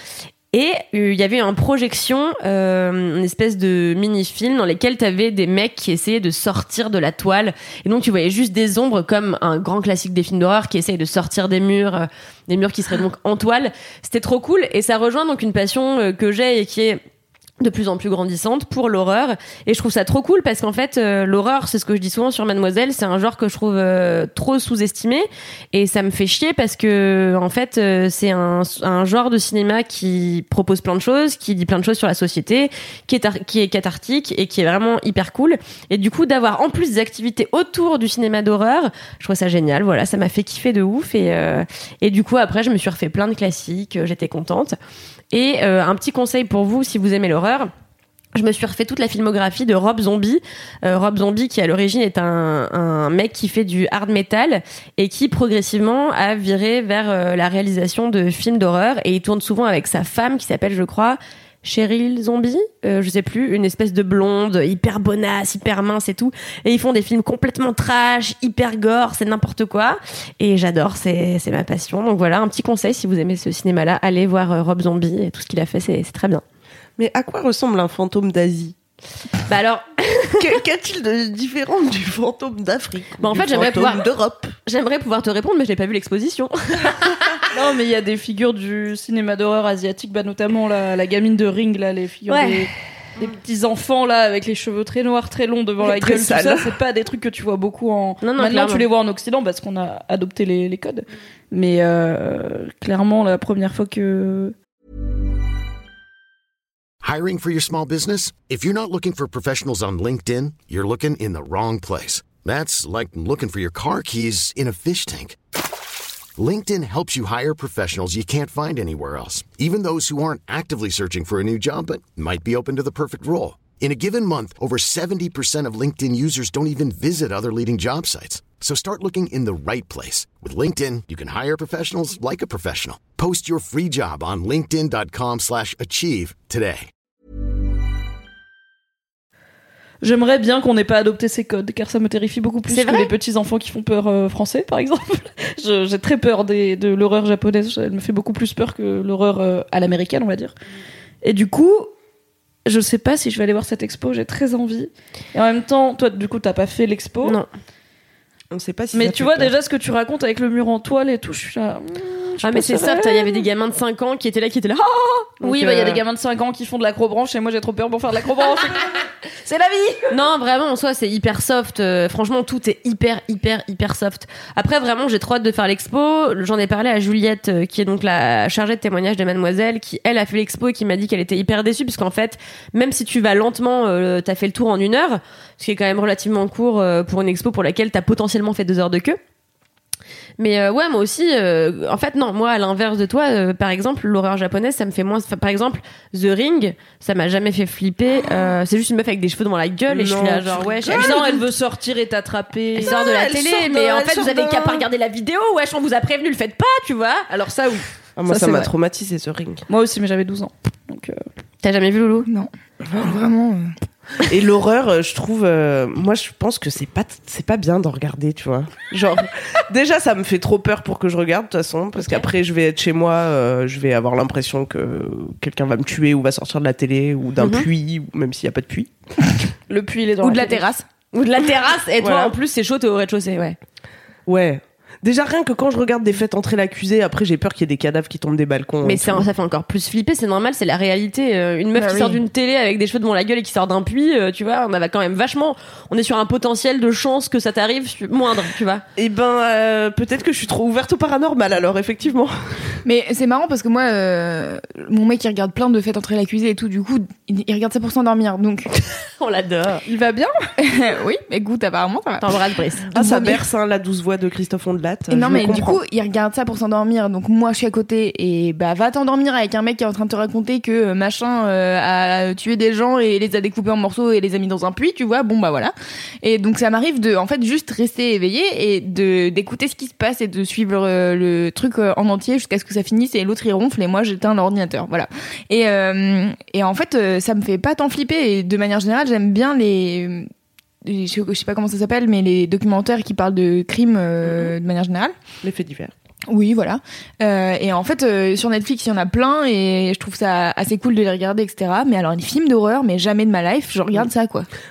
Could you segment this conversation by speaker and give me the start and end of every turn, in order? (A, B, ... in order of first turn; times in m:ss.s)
0:00.5-0:17.0 A
0:17.6-0:44.8 A
0:45.3-0:47.7 A
0:48.3-1:16.4 A
1:17.0-1:18.8 B
1:19.5-1:20.6 A
1:20.4-1:24.5 B
1:23.2-1:24.0 A
1:24.6-1:27.3 A
1:27.5-1:44.6 C
1:32.3-1:32.7 A
1:35.8-1:36.7 B
1:38.2-1:38.9 A
1:47.0-1:55.4 D
1:56.4-2:16.9 D
2:20.0-2:30.5 C
2:22.7-2:23.1 A
2:31.2-2:31.9 C
2:32.7-2:37.4 C
2:38.5-2:39.5 B
2:38.9-2:43.4 C
2:42.4-2:46.0 A
2:45.0-2:50.1 C
2:50.1-3:09.2 A
3:10.4-3:21.4 A
3:19.9-3:21.4 B
3:20.9-3:24.8 C
3:22.8-3:27.3 A
3:27.3-3:28.7 C
3:28.2-3:29.7 B
3:29.7-3:31.2 C
3:31.6-3:32.3 A
3:32.3-3:33.7 E
3:34.2-3:48.9 B
3:42.0-3:42.3 A
3:47.4-3:47.7 A
3:49.7-3:50.6 C
3:50.2-3:50.9 E
3:51.1-3:53.6 A
3:52.0-3:52.4 B
3:54.3-3:59.3 B
3:58.8-4:08.8 A
4:01.8-4:02.2 E
4:09.0-4:12.8 B
4:12.8-4:18.7 E
4:19.0-4:19.8 A
4:19.9-4:20.3 C
4:20.6-4:23.4 E
4:22.2-4:22.9 A
4:22.9-4:25.8 B
4:25.1-4:50.3 E
4:50.8-4:55.1 E
4:55.4-4:55.9 B
4:56.3-5:04.5 E